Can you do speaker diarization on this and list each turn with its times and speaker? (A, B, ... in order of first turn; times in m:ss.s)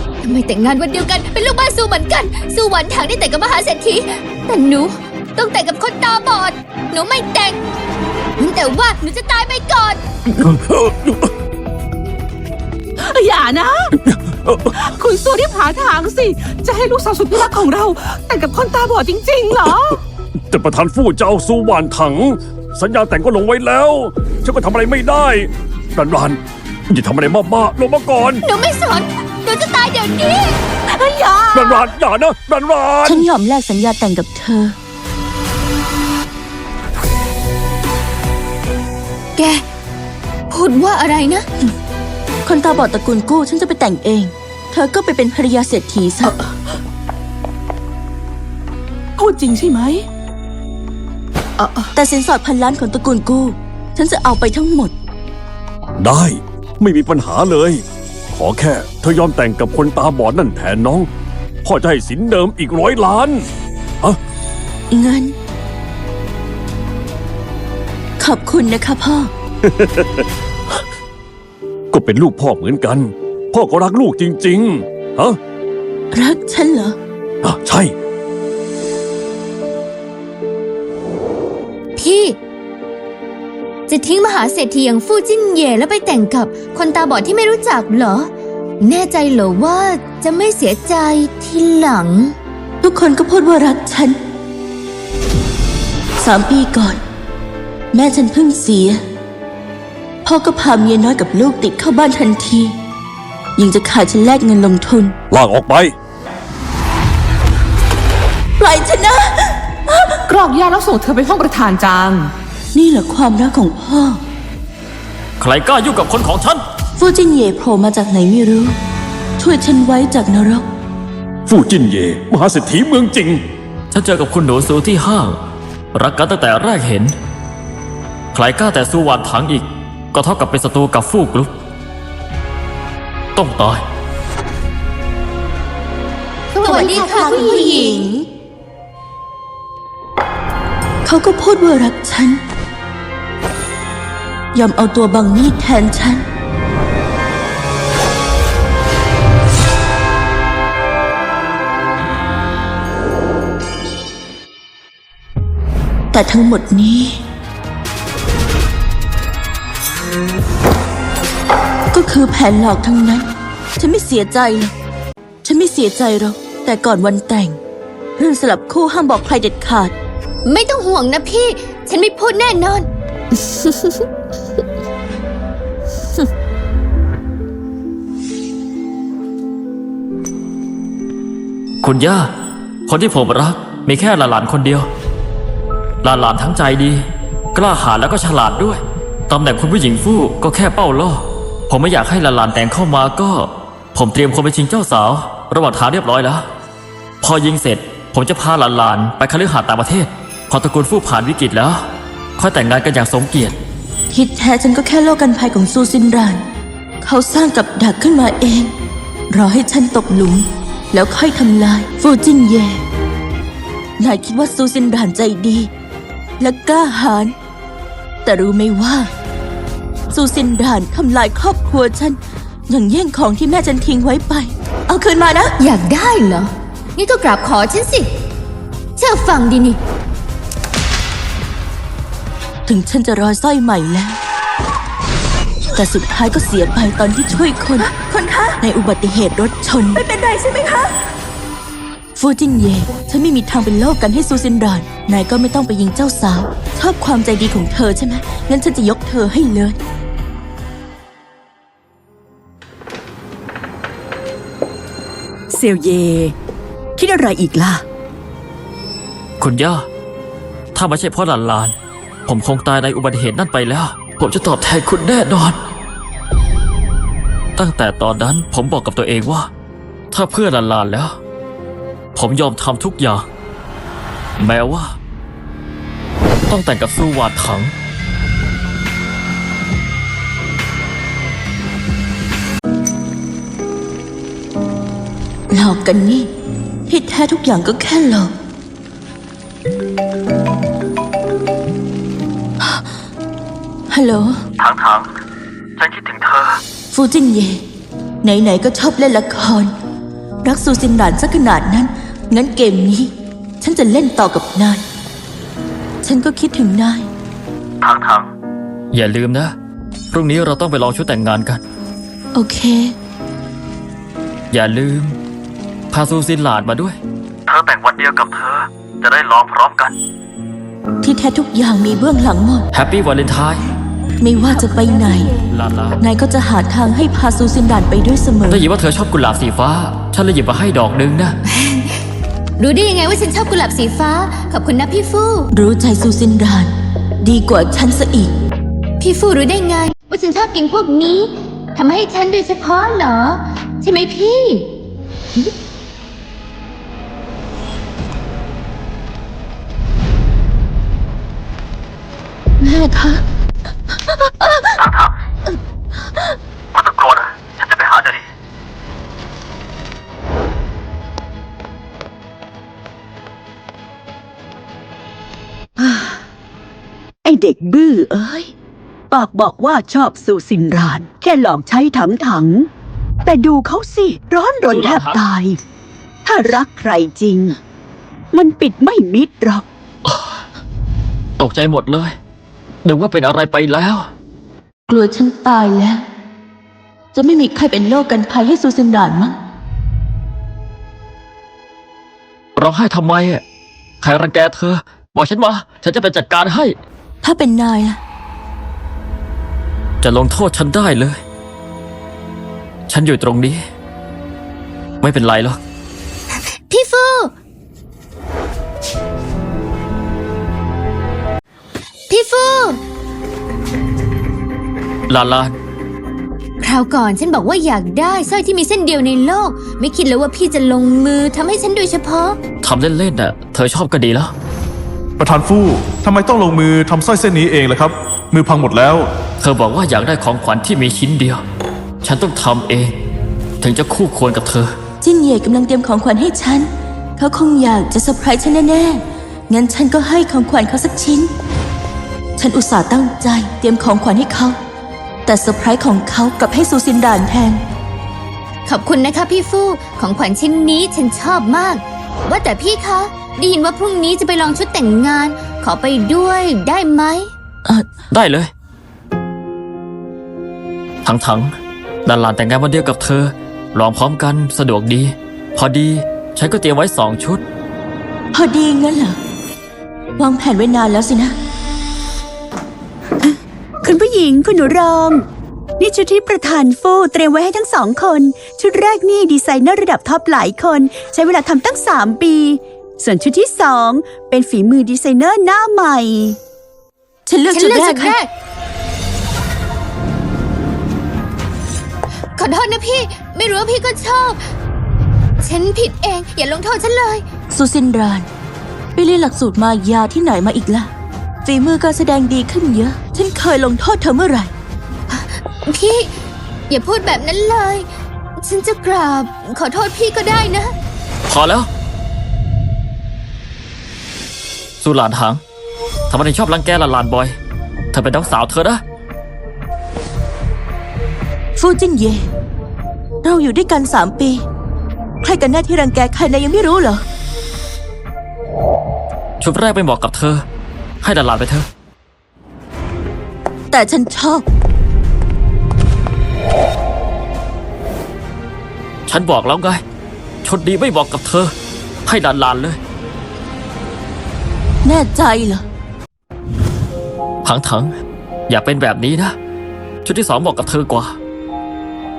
0:00.2-0:07.6 A
0:08.4-0:10.0 A
0:10.3-0:11.3 B
0:13.0-0:14.0 C
0:14.0-0:14.7 B
0:14.7-0:20.0 C
0:20.5-0:28.4 B
0:28.4-0:30.6 A
0:31.5-0:33.2 B
0:33.0-0:34.8 D
0:39.4-0:39.6 A
0:40.5-0:41.5 A
0:42.4-0:46.4 D
0:49.2-0:50.0 C
0:51.6-0:51.9 C
0:51.9-0:54.9 D
0:56.0-1:01.1 B
1:01.6-1:03.5 B
1:04.9-1:05.4 D
1:08.2-1:09.3 D
1:09.6-1:10.2 B
1:11.9-1:15.4 B
1:16.1-1:17.0 D
1:17.4-1:17.9 B
1:22.0-1:22.4 A
1:23.9-1:28.3 A
1:28.8-1:32.4 A
1:32.8-1:34.2 D
1:36.2-1:37.0 D
1:37.9-1:39.0 D
1:40.2-1:42.8 D
1:43.6-1:45.2 D
1:45.3-1:45.9 B
1:48.6-1:50.0 D
1:50.2-1:52.3 C
1:52.7-1:54.2 D
1:55.4-1:56.6 E
1:57.0-1:58.8 D
1:59.4-2:00.7 D
2:01.5-2:03.4 B
2:03.9-2:05.4 E
2:05.9-2:07.1 E
2:08.3-2:11.5 E
2:13.3-2:13.8 E
2:16.5-2:18.1 A
2:16.6-2:18.2 D
2:21.0-2:22.4 D
2:24.5-2:26.2 D
2:36.1-2:37.2 D
2:41.9-2:44.7 D
2:45.4-2:47.6 D
2:48.2-2:49.9 D
2:50.4-2:52.9 A
3:01.8-3:02.3 E
3:02.9-3:04.9 E
3:06.0-3:16.4 E
3:17.2-3:21.8 E
3:22.4-3:23.6 E
3:24.1-3:26.4 D
3:27.0-3:28.7 D
3:29.3-3:32.8 D
3:34.0-3:35.7 D
3:36.4-3:37.3 D
3:38.2-3:39.1 D
3:40.1-3:45.5 D
3:45.6-3:48.1 A
3:49.0-3:49.8 A
3:52.6-3:54.2 D
3:55.7-4:01.0 D
4:02.2-4:09.8 D
4:15.5-4:16.3 F
4:17.0-4:17.8 F
4:19.4-4:19.8 E
4:20.7-4:21.7 E
4:22.3-4:25.6 E
4:27.6-4:29.5 E
4:30.1-4:31.2 E
4:32.1-4:33.2 E
4:34.4-4:35.0 E
4:36.5-4:37.7 E
4:45.5-4:46.3 D
4:46.9-4:48.3 D
4:53.9-4:54.4 D
4:54.6-4:55.1 E
4:55.8-4:56.6 E
4:56.9-4:57.6 D
4:58.2-4:59.7 D
5:00.4-5:04.8 D
5:06.0-5:07.1 D
5:07.8-5:08.3 E
5:08.9-5:09.5 E
5:10.1-5:11.6 E
5:12.3-5:12.9 D
5:14.5-5:15.2 E
5:15.9-5:17.0 E
5:17.5-5:19.9 E
5:21.0-5:22.6 D
5:22.7-5:23.6 E
5:24.2-5:25.3 D
5:24.4-5:25.4 A
5:25.5-5:26.0 E
5:26.0-5:28.7 D
5:28.5-5:31.4 E
5:31.5-5:32.0 A
5:32.6-5:35.5 A
5:35.5-5:38.3 D
5:39.0-5:44.7 A
5:52.6-5:53.2 D
5:54.8-5:55.1 E
5:56.7-5:58.2 E
6:05.8-6:06.2 F
6:07.2-6:08.5 F
6:09.1-6:12.7 F
6:13.2-6:15.6 F
6:14.7-6:15.2 E
6:16.2-6:17.6 F
6:18.3-6:19.6 F
6:20.0-6:20.3 E
6:21.4-6:22.1 E
6:22.8-6:24.1 E
6:24.9-6:26.1 D
6:27.1-6:29.4 D
6:32.6-6:33.4 E
6:34.0-6:36.8 E
6:37.2-6:38.0 D
6:40.0-6:41.2 E
6:42.9-6:43.6 E
6:45.0-6:45.6 E
6:46.7-6:47.3 A
6:52.1-6:52.8 A
6:55.1-6:55.5 E
6:56.6-7:02.4 A
7:02.6-7:04.3 E
7:05.2-7:09.1 G
7:09.4-7:11.4 E
7:12.0-7:12.9 E
7:13.6-7:14.7 E
7:15.0-7:21.3 D
7:22.4-7:24.6 D
7:25.2-7:27.6 D
7:28.6-7:37.3 A
7:38.1-7:38.5 E
7:41.0-7:41.5 E
7:42.0-7:47.4 E
7:48.3-7:49.2 D
7:50.2-7:51.4 D
7:53.2-7:55.2 F
7:55.8-8:06.4 F
8:07.2-8:08.2 D
8:07.5-8:08.3 A
8:12.4-8:14.4 A
8:15.4-8:17.2 A
8:17.5-8:18.2 D
8:19.0-8:20.9 D
8:21.4-8:24.5 D
8:25.1-8:26.1 A
8:26.7-8:30.7 A
8:31.3-8:31.7 E
8:34.8-8:35.4 E
8:36.1-8:37.4 E
8:37.9-8:38.8 E
8:41.6-8:42.3 D
8:43.2-8:44.4 D
8:45.2-8:47.0 D
8:49.4-8:50.4 E
8:51.0-8:51.6 E
8:53.7-8:54.4 D
8:59.1-8:59.8 E
9:00.4-9:01.5 E
9:02.0-9:02.8 E
9:04.8-9:05.6 D
9:07.4-9:07.9 E
9:08.5-9:09.3 E
9:10.0-9:11.2 E